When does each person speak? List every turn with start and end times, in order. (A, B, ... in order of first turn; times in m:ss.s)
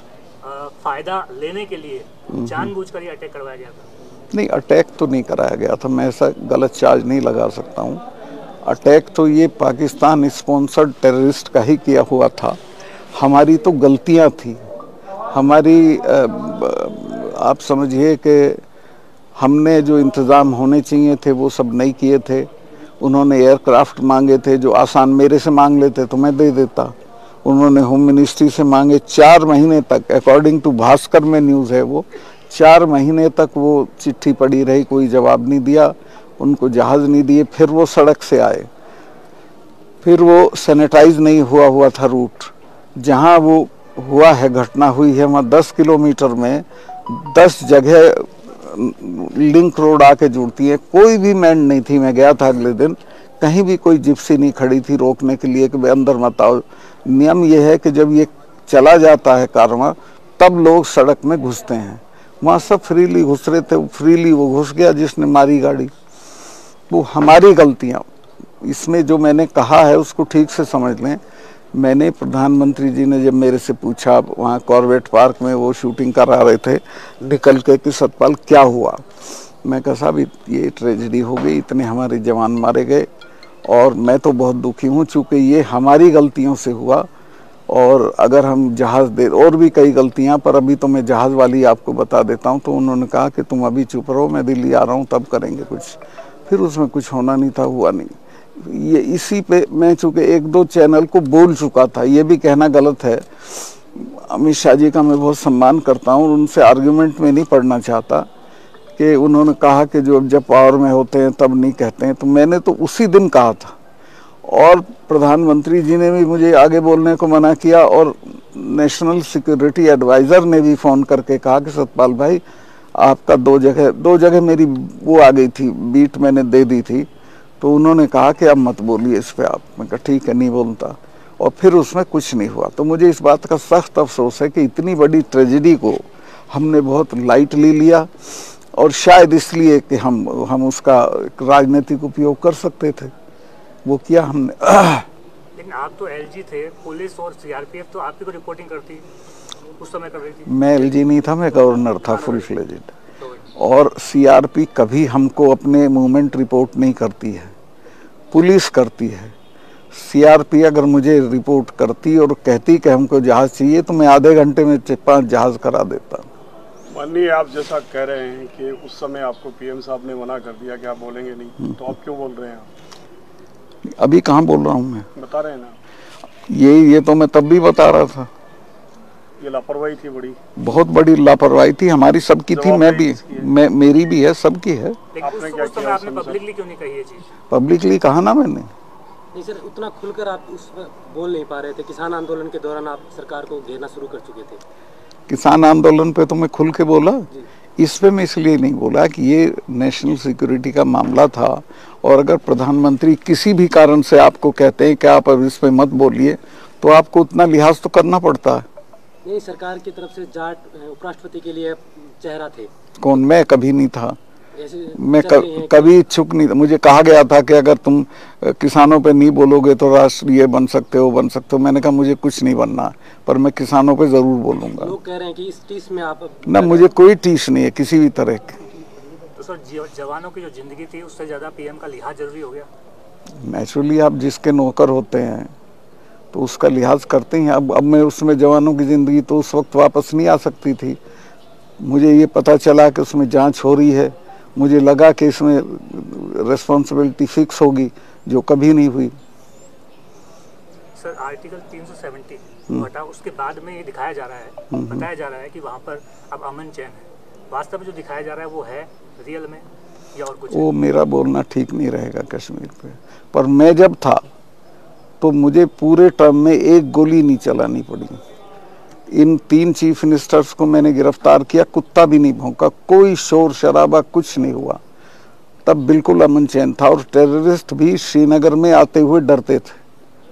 0:00.4-0:03.9 A
0:02.3-0:02.7 B
0:04.3-0:08.0 B
0:08.6-0:12.6 B
0:13.1-0:14.6 B
0:15.3-0:18.6 B
0:19.4-0:22.5 B
0:23.0-0:38.7 B
0:40.0-1:05.9 B
1:06.9-1:08.0 B
1:08.6-1:11.2 B
1:11.7-1:23.1 B
1:23.6-1:27.1 B
1:27.7-1:48.3 B
1:49.0-1:53.7 B
1:54.4-2:02.4 B
2:02.9-2:07.1 B
2:07.6-2:18.1 B
2:18.7-2:23.1 B
2:23.8-2:25.1 B
2:25.6-2:29.0 A
2:29.8-2:31.1 A
2:30.5-2:32.9 B
2:31.8-2:32.3 A
2:33.2-2:33.5 A
2:33.6-2:37.5 B
2:38.3-2:39.3 B
2:39.9-2:46.3 B
2:46.9-2:52.7 C
2:53.8-2:55.1 B
2:55.2-2:55.7 C
2:56.5-2:58.3 B
2:59.4-3:00.4 C
3:00.6-3:05.0 B
3:02.5-3:03.5 C
3:05.2-3:07.3 A
3:05.2-3:06.4 C
3:07.5-3:08.7 B
3:09.3-3:14.6 D
3:15.3-3:28.6 B
3:29.2-3:32.7 D
3:33.0-3:34.2 B
3:34.6-3:35.9 D
3:34.9-3:44.9 B
3:44.8-3:46.9 D
3:46.4-3:48.6 B
3:49.4-3:52.7 A
3:53.4-3:55.5 B
3:56.3-4:01.0 B
4:01.8-4:09.2 B
4:10.9-4:20.7 A
4:14.7-4:15.0 B
4:20.5-4:24.3 B
4:25.2-4:28.2 B
4:29.1-4:34.8 B
4:35.6-4:39.8 B